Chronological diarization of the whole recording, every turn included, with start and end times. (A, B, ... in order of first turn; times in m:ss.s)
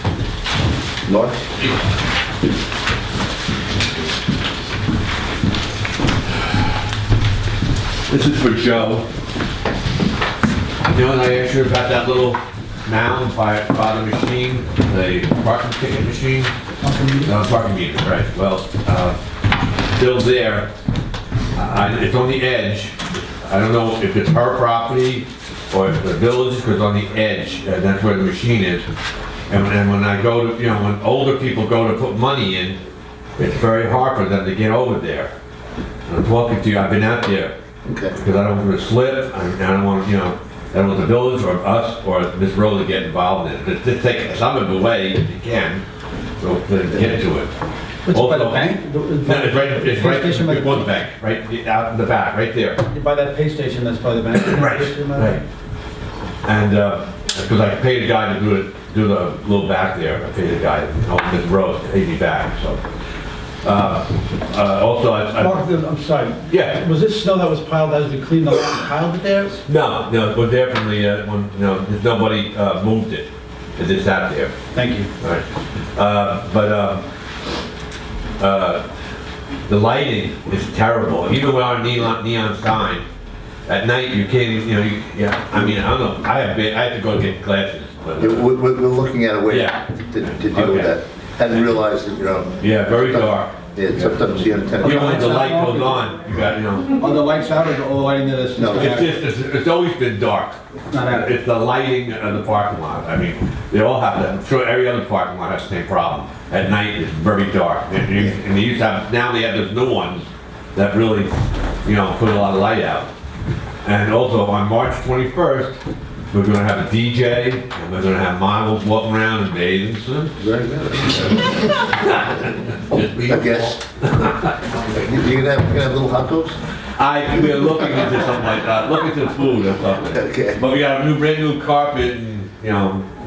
0:01.0-0:01.4 A
0:08.1-0:09.1 B
0:10.8-0:16.5 B
0:16.8-0:17.4 C
0:17.2-0:19.2 B
0:19.9-0:20.7 B
0:21.6-0:28.9 B
0:29.5-0:32.8 B
0:33.4-0:35.3 B
0:36.1-0:37.5 B
0:37.8-0:38.2 A
0:38.1-0:45.8 B
0:46.4-0:47.5 B
0:48.1-0:51.0 C
0:48.1-0:48.7 B
0:49.3-0:52.8 B
0:52.8-0:55.4 C
0:54.4-0:55.4 B
0:56.4-1:02.8 B
1:03.6-1:05.6 B
1:05.4-1:09.6 C
1:06.5-1:06.8 B
1:09.7-1:14.6 B
1:14.7-1:15.1 C
1:15.2-1:17.0 B
1:18.4-1:18.8 B
1:19.7-1:23.1 B
1:23.7-1:28.5 B
1:28.2-1:35.3 A
1:29.5-1:31.0 B
1:32.6-1:34.3 B
1:34.8-1:37.0 B
1:34.8-1:36.0 C
1:36.9-1:39.2 C
1:38.6-1:39.0 A
1:38.7-1:53.1 B
1:40.9-1:41.4 C
1:53.8-1:55.8 B
1:56.3-2:00.4 B
2:00.4-2:01.6 A
2:01.1-2:04.6 B
2:03.3-2:03.8 A
2:04.9-2:06.6 A
2:07.0-2:13.1 B
2:10.1-2:10.6 A